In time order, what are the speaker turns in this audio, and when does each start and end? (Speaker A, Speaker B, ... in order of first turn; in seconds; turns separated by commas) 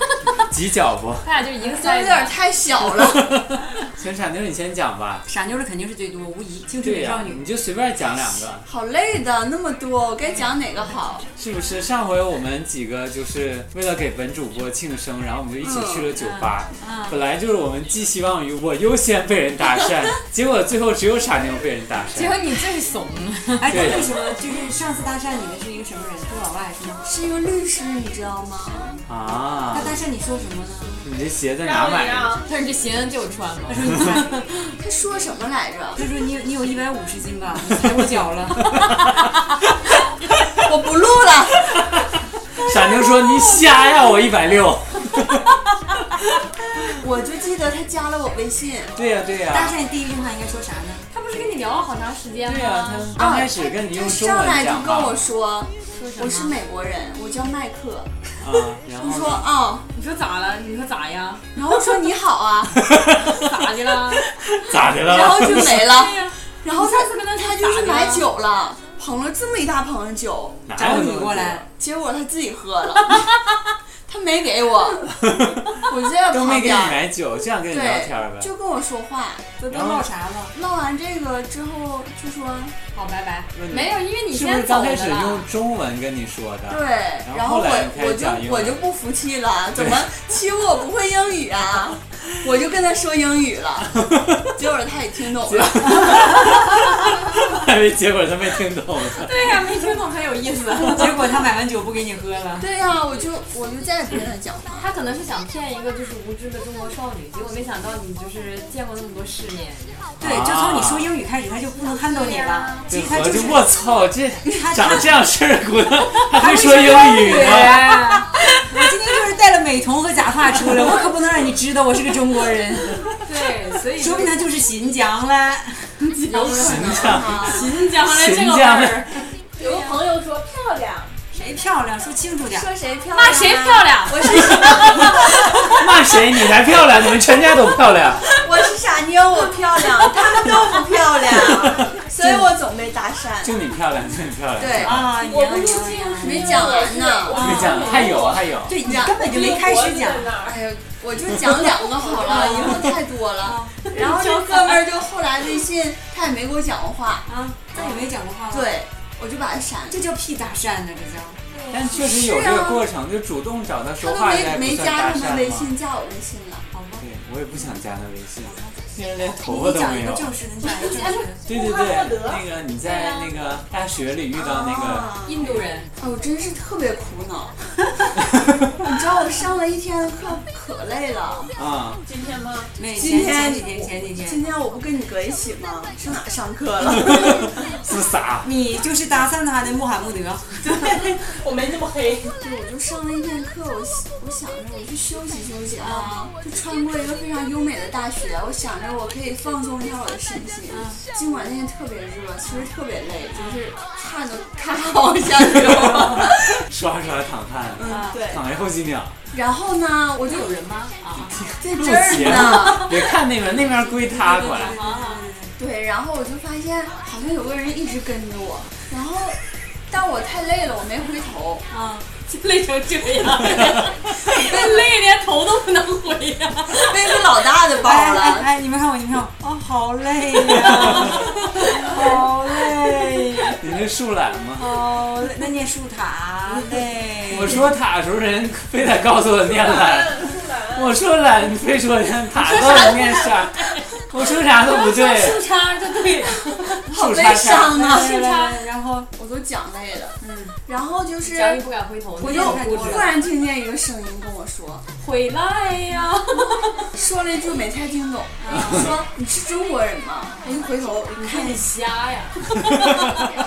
Speaker A: 0.5-1.2, Speaker B: 1.2-2.4, Speaker C: 1.6-3.3, Speaker A: 2.8-5.3, Speaker D: 5.3-7.4, Speaker A: 6.8-8.7, Speaker C: 8.6-11.3, Speaker A: 11.3-22.4, Speaker C: 15.6-16.1, Speaker D: 16.2-17.2, Speaker B: 22.1-23.8, Speaker D: 23.6-27.0, Speaker A: 23.7-24.1, Speaker C: 27.0-29.0, Speaker A: 29.1-30.0, Speaker D: 29.7-31.1, Speaker A: 31.0-32.4, Speaker E: 31.6-32.4, Speaker B: 32.4-34.3, Speaker D: 33.7-34.4, Speaker C: 34.8-36.0, Speaker D: 35.9-38.9, Speaker A: 38.6-38.9, Speaker C: 40.6-41.8, Speaker A: 42.6-45.5, Speaker B: 43.1-44.1, Speaker C: 46.9-48.9, Speaker A: 49.0-49.8, Speaker D: 49.5-51.0, Speaker B: 51.1-53.1, Speaker A: 52.5-55.2, Speaker C: 53.1-58.1, Speaker B: 55.9-56.6, Speaker A: 58.4-59.5, Speaker C: 59.0-59.8, Speaker B: 59.9-61.5, Speaker C: 61.5-62.9, Speaker A: 62.8-63.4, Speaker B: 63.2-64.2, Speaker A: 64.5-65.9, Speaker C: 65.0-70.6, Speaker B: 65.4-68.3, Speaker A: 70.7-71.6, Speaker D: 70.7-71.7, Speaker C: 71.8-73.2, Speaker C: 74.1-75.3, Speaker A: 75.2-75.7, Speaker C: 75.8-77.0, Speaker A: 76.3-78.5, Speaker C: 77.7-79.6, Speaker D: 79.6-80.5, Speaker A: 79.7-80.1, Speaker C: 80.5-82.8, Speaker B: 82.9-85.5, Speaker A: 83.5-88.8, Speaker C: 86.7-96.6, Speaker A: 89.7-90.1, Speaker A: 94.0-94.4, Speaker A: 95.4-99.6, Speaker B: 99.2-101.2, Speaker D: 100.8-102.7, Speaker C: 102.6-104.9, Speaker B: 104.7-110.1, Speaker A: 110.2-111.1, Speaker D: 110.2-113.7, Speaker C: 111.9-112.8, Speaker A: 112.9-118.0, Speaker D: 114.5-115.1, Speaker B: 116.3-117.8, Speaker D: 116.4-123.1, Speaker B: 123.2-124.4, Speaker D: 124.0-127.2, Speaker C: 126.2-127.7, Speaker A: 126.4-129.2, Speaker B: 127.4-129.1, Speaker E: 129.6-131.1, Speaker B: 129.6-129.9, Speaker D: 131.3-132.7, Speaker C: 132.5-136.2, Speaker B: 133.1-135.3, Speaker A: 135.5-138.2, Speaker C: 138.3-143.5, Speaker D: 142.2-142.5, Speaker A: 143.4-145.0, Speaker C: 144.6-145.0, Speaker D: 144.8-146.7, Speaker E: 145.1-148.5, Speaker C: 146.2-147.9, Speaker D: 147.3-150.3, Speaker A: 147.3-148.8, Speaker C: 148.8-149.2, Speaker E: 149.2-150.6, Speaker C: 150.4-158.0, Speaker E: 151.8-152.6, Speaker D: 153.4-153.8, Speaker B: 153.9-154.8, Speaker D: 157.3-158.8, Speaker C: 158.5-160.0, Speaker D: 159.9-161.4, Speaker B: 161.5-161.9, Speaker A: 161.7-165.7, Speaker C: 161.9-162.9, Speaker C: 164.0-166.7, Speaker D: 166.7-167.0, Speaker A: 167.0-170.3, Speaker D: 168.4-168.8, Speaker D: 169.4-171.4, Speaker E: 170.6-172.4, Speaker A: 171.4-175.1, Speaker C: 174.3-177.6, Speaker B: 175.2-175.9, Speaker C: 178.8-181.5, Speaker A: 181.6-182.0, Speaker E: 182.1-182.7, Speaker D: 182.8-184.5, Speaker C: 182.9-187.6, Speaker A: 187.0-188.5, Speaker D: 188.4-191.1, Speaker E: 190.6-192.4, Speaker C: 192.4-206.6, Speaker D: 195.8-196.3, Speaker D: 200.7-201.0, Speaker D: 203.3-203.6, Speaker A: 205.6-209.2, Speaker C: 207.8-208.4, Speaker D: 207.8-208.2, Speaker C: 209.3-210.5, Speaker B: 210.3-211.3, Speaker A: 211.2-214.7, Speaker C: 211.6-212.9, Speaker D: 212.5-212.7, Speaker D: 214.1-215.5, Speaker B: 214.5-215.2, Speaker C: 215.6-221.6, Speaker D: 221.7-222.1, Speaker B: 222.2-227.2, Speaker C: 226.7-228.5, Speaker D: 227.8-233.6, Speaker B: 230.4-233.5, Speaker A: 233.6-234.6, Speaker D: 234.6-237.6, Speaker A: 237.3-245.4, Speaker E: 239.4-241.0, Speaker B: 242.4-243.8, Speaker B: 244.5-246.8, Speaker C: 246.9-248.2, Speaker A: 246.9-247.8, Speaker D: 247.6-249.1, Speaker B: 247.8-248.6, Speaker C: 249.1-251.6, Speaker D: 250.2-250.5, Speaker B: 251.2-253.1, Speaker D: 252.2-253.1, Speaker C: 252.2-254.8, Speaker B: 255.0-256.9, Speaker C: 256.9-261.6, Speaker D: 258.4-258.9, Speaker B: 261.1-263.3, Speaker A: 262.6-263.2